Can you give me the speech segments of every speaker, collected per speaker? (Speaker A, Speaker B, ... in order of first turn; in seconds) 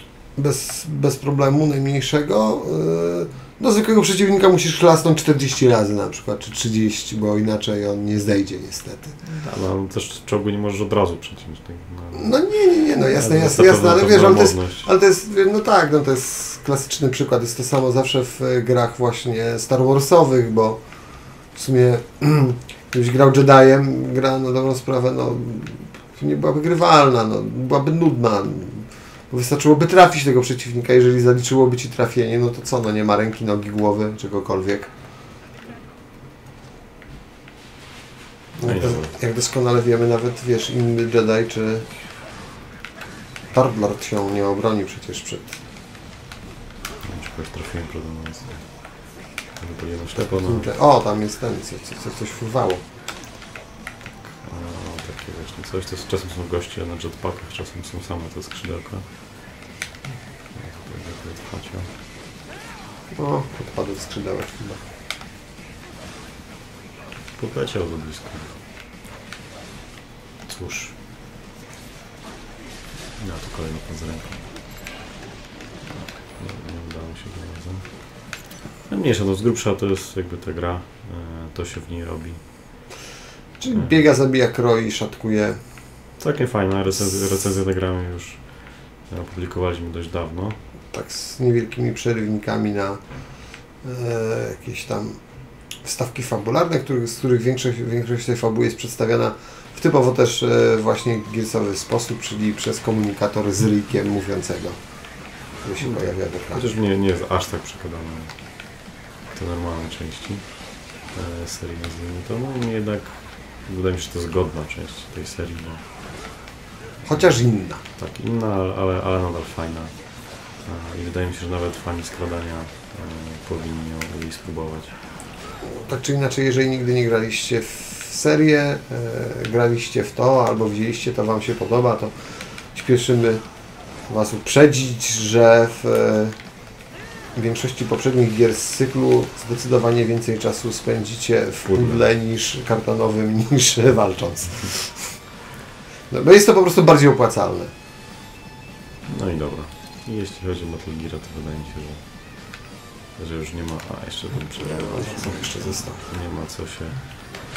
Speaker A: 0.3-9.1, 12.1-34.9, 38.6-41.9, 43.5-45.6, 50.1-52.8, 63.1-64.8, 83.6-85.9, 90.9-106.7, 117.0-117.8, 125.6-136.4, 137.3-145.2, 146.1-147.7, 154.6-156.0
Speaker B: 9.2-14.9, 38.6-39.1, 47.0-50.8, 54.0-59.6, 60.5-61.9, 67.3-68.5, 70.4-71.0, 73.2-74.4, 75.9-82.8, 83.7-84.0, 86.2-90.6, 105.8-115.9, 117.0-125.0, 141.6-142.1, 149.1-157.2